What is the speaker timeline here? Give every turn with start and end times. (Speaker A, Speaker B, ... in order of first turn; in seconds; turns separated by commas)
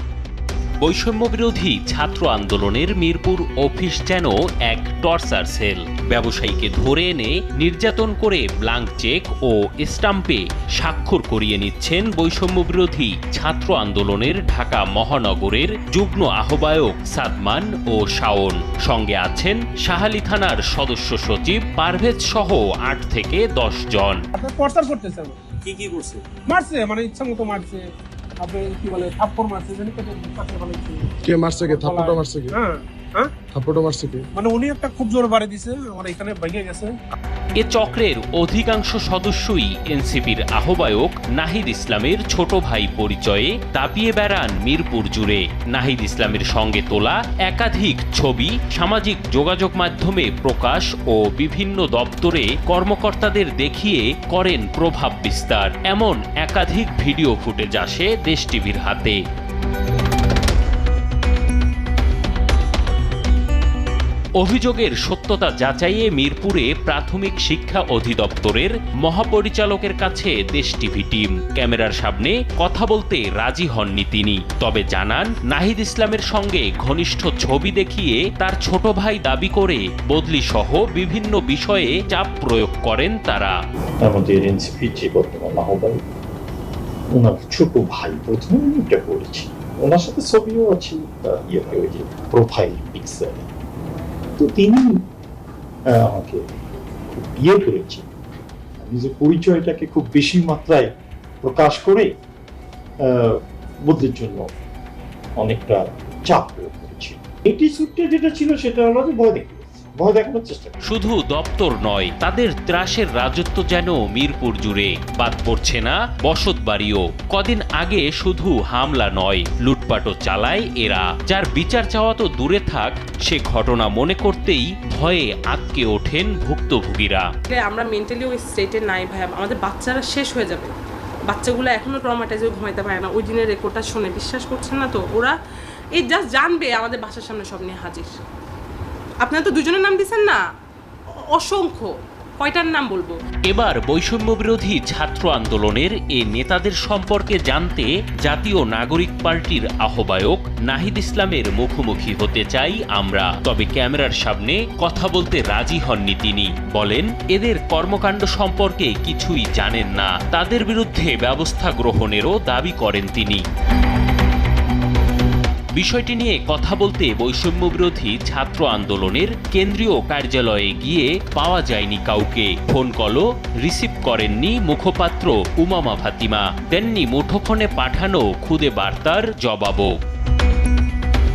Speaker A: 0.8-24.2, Speaker B: 24.3-27.9, Speaker B: 28.4-31.1, Speaker C: 31.2-32.6, Speaker B: 31.6-33.3, Speaker C: 33.5-34.3, Speaker B: 34.4-37.0, Speaker A: 37.6-59.2, Speaker A: 64.4-83.5, Speaker D: 84.1-86.0, Speaker D: 87.2-93.5, Speaker D: 94.4-94.9, Speaker D: 95.9-96.4, Speaker D: 97.1-98.1, Speaker D: 98.8-100.9, Speaker D: 101.4-102.1, Speaker D: 103.1-103.3, Speaker D: 103.9-104.5, Speaker D: 105.4-110.8, Speaker A: 110.9-127.3, Speaker E: 127.5-130.7, Speaker E: 131.3-135.3, Speaker E: 135.9-138.2, Speaker E: 139.2-140.4, Speaker E: 141.4-143.2, Speaker A: 143.5-163.4, Speaker A: 165.8-180.0